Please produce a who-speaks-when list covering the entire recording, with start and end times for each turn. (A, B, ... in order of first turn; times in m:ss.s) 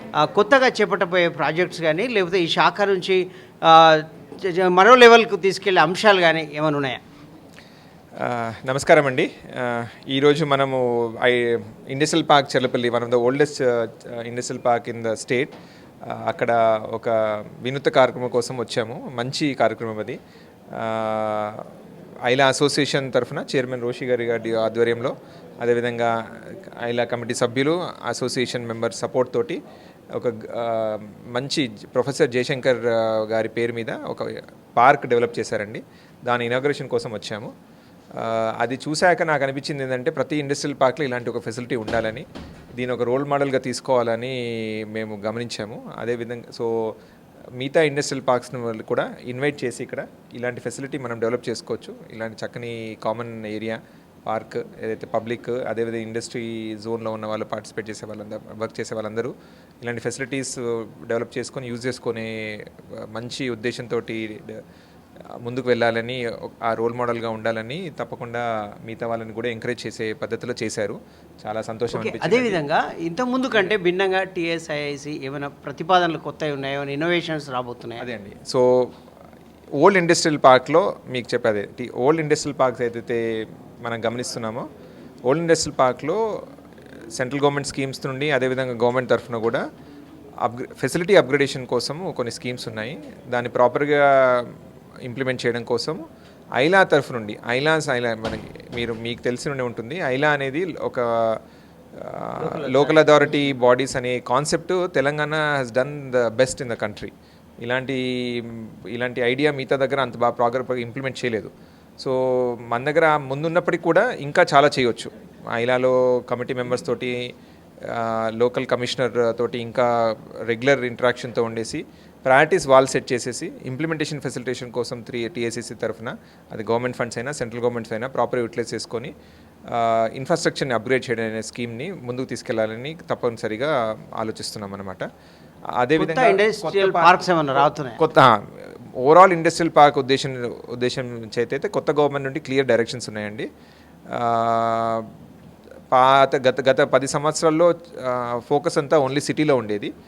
0:00.2-0:07.0 A
0:08.2-0:15.5 B
0:16.1-0:20.2 B
0:20.7-0:21.6 B
0:22.3-0:29.6 B
0:30.2-0:37.5 B
0:38.2-0:42.2 B
0:42.8-0:44.4 B
0:44.9-0:46.7 B
0:47.6-1:04.6 B
1:05.4-1:12.6 B
1:11.9-1:18.0 A
1:18.0-1:18.9 B
1:19.8-1:23.2 B
1:23.8-1:24.6 B
1:25.3-1:26.2 B
1:27.1-1:29.6 B
1:30.4-1:34.5 B
1:35.0-1:36.0 B
1:36.6-1:41.0 B
1:42.0-1:47.1 B
1:42.4-1:43.2 A
1:47.6-1:57.2 B
1:57.8-2:09.1 B
2:09.7-2:15.0 B
2:15.7-2:18.4 B
2:16.0-2:18.0 A
2:19.0-2:23.5 B
2:24.1-2:25.1 B
2:25.9-2:29.9 B